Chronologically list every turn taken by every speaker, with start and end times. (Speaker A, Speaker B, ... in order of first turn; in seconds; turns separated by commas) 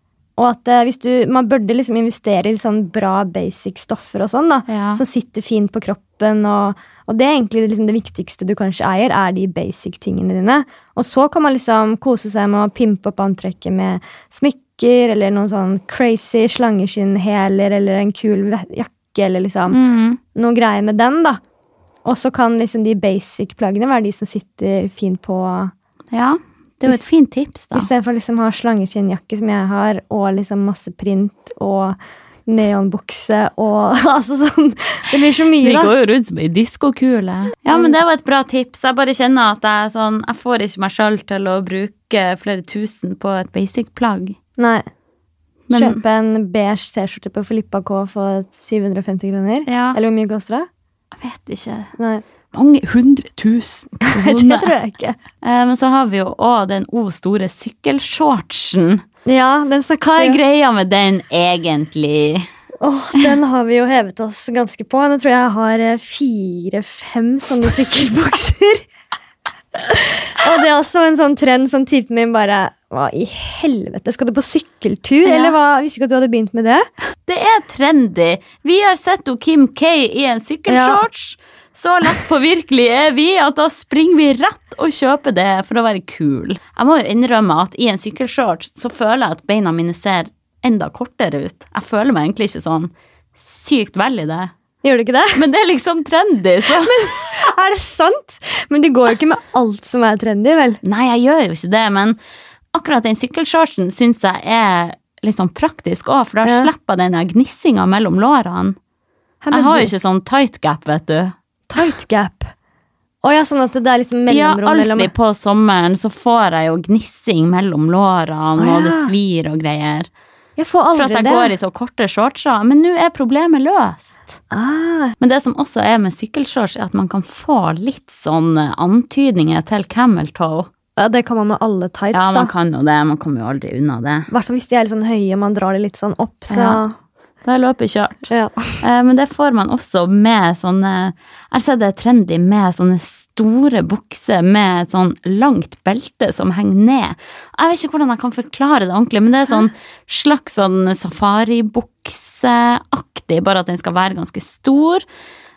Speaker A: 0.4-19.8, Speaker B: 4.7-5.0, Speaker B: 19.7-20.2, Speaker A: 20.4-21.4, Speaker A: 22.1-25.7, Speaker B: 26.1-27.9, Speaker A: 27.8-35.9, Speaker B: 35.6-44.4, Speaker A: 44.6-44.9, Speaker B: 45.7-46.0, Speaker A: 45.7-50.7, Speaker B: 49.7-50.0, Speaker B: 51.2-51.9, Speaker A: 52.0-52.2, Speaker B: 52.5-54.7, Speaker A: 54.1-55.2, Speaker B: 55.4-59.0, Speaker A: 59.3-60.4, Speaker B: 60.0-62.5, Speaker A: 62.8-68.8, Speaker A: 69.8-76.8, Speaker B: 75.2-75.6, Speaker B: 77.3-94.5, Speaker A: 80.7-81.0, Speaker A: 94.8-95.4, Speaker B: 95.3-97.3, Speaker A: 96.7-100.8, Speaker B: 100.8-102.2, Speaker B: 102.7-108.8, Speaker A: 106.4-106.7, Speaker A: 109.4-109.9, Speaker B: 109.5-111.3, Speaker A: 111.7-112.5, Speaker A: 113.2-115.1, Speaker B: 114.3-120.1, Speaker A: 118.6-119.1, Speaker A: 120.6-121.5, Speaker B: 120.9-124.4, Speaker A: 124.5-125.2, Speaker B: 125.2-130.7, Speaker A: 131.0-132.5, Speaker B: 132.1-134.3, Speaker A: 134.3-136.9, Speaker B: 136.5-136.8, Speaker B: 137.4-138.3, Speaker A: 138.3-138.8, Speaker B: 138.8-155.0